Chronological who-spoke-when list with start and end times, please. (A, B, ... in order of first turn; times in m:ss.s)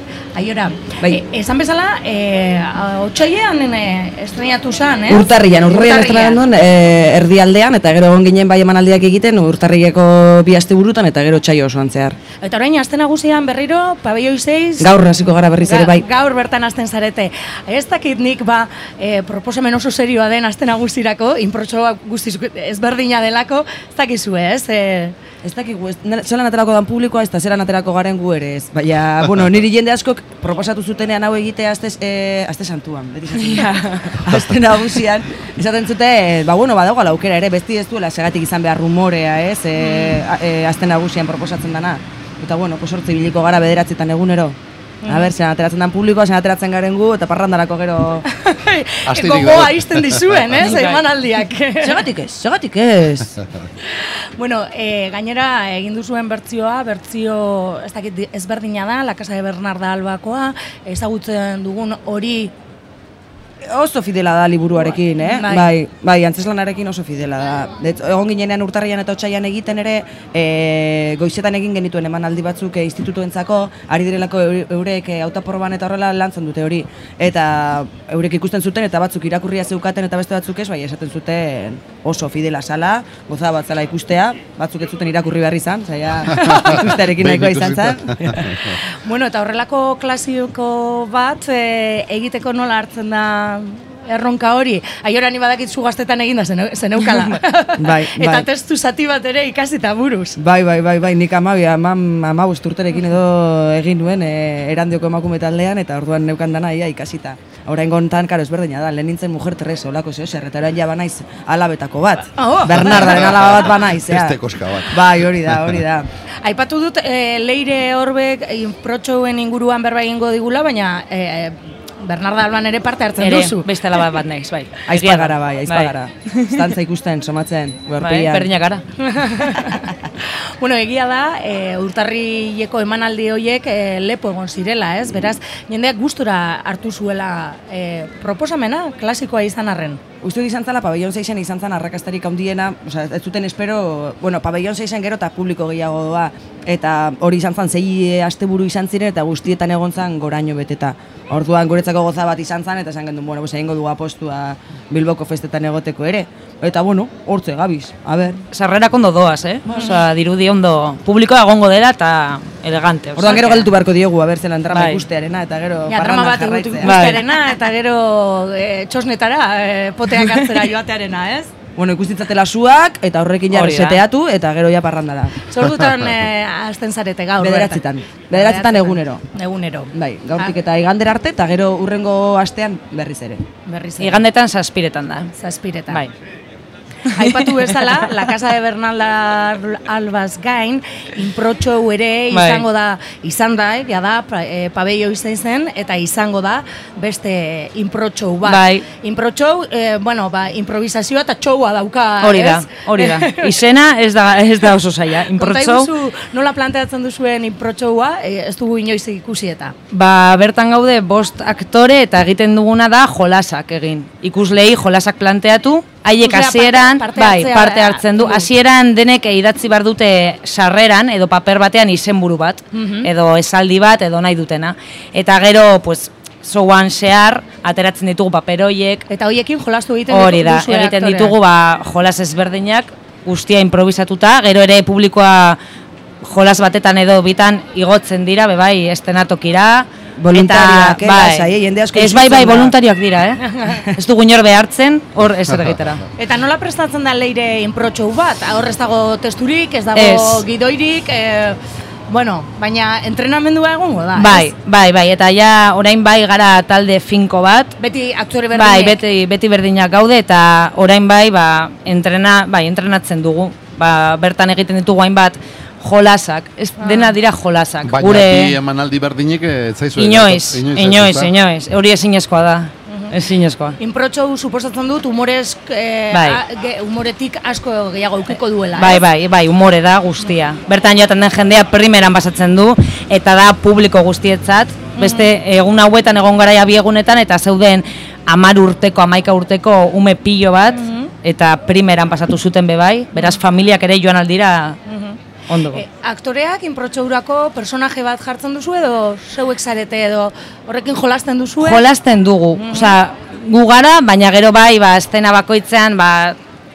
0:00.3-0:06.4 A
0:05.1-0:12.2 B
0:12.4-0:14.9 A
0:14.8-0:16.0 B
0:15.6-0:25.2 A
0:25.4-0:48.3 B
0:33.4-0:34.2 C
0:39.8-0:40.2 A
0:45.0-0:45.3 A
0:48.3-0:52.0 A
0:49.0-0:50.5 D
0:50.6-0:51.0 C
0:51.8-0:53.4 B
0:54.0-1:02.5 A
1:03.6-1:28.4 B
1:05.2-1:05.7 A
1:26.4-1:26.7 A
1:26.4-1:28.8 D
1:28.8-1:40.4 A
1:37.8-1:38.5 B
1:40.4-1:56.1 B
1:52.3-1:53.1 A
1:53.0-1:55.8 D
1:56.4-2:03.7 A
2:03.2-2:06.7 C
2:04.9-2:08.5 B
2:08.0-2:08.8 C
2:09.0-2:20.0 A
2:20.2-2:38.4 B
2:38.5-2:43.7 C
2:39.7-2:39.9 B
2:43.2-2:47.1 B
2:44.7-2:45.0 C
2:45.9-2:51.5 A
2:46.8-2:47.2 C
2:51.8-2:55.4 B
2:53.5-2:54.0 C
2:55.5-3:00.5 A
2:57.4-2:59.2 B
2:59.9-3:03.4 B
3:03.6-3:04.2 A
3:04.0-3:05.3 C
3:05.4-3:06.0 A
3:07.1-3:23.6 A
3:07.2-3:07.9 C
3:12.3-3:12.6 C
3:18.4-3:18.8 C
3:22.2-3:25.9 C
3:25.3-3:29.7 A
3:29.9-3:49.0 C
3:36.2-3:38.5 A
3:42.7-3:43.1 A
3:49.1-3:51.4 A
3:50.1-3:55.6 C
3:56.2-4:06.0 C
4:00.2-4:02.7 B
4:03.4-4:03.8 A
4:06.2-4:14.5 A
4:09.9-4:10.4 C
4:14.1-4:17.7 C
4:17.8-4:19.0 A
4:18.5-4:28.6 C
4:26.8-4:27.2 A
4:27.8-4:31.3 D
4:30.0-4:33.8 C
4:32.9-4:33.1 A
4:33.8-4:39.0 A
4:36.1-4:36.4 C
4:38.7-4:54.8 C
4:44.9-4:45.3 A
4:50.7-4:51.1 A
4:54.8-5:01.8 A
4:55.5-4:55.8 C
5:01.6-5:06.4 C
5:02.5-5:03.0 A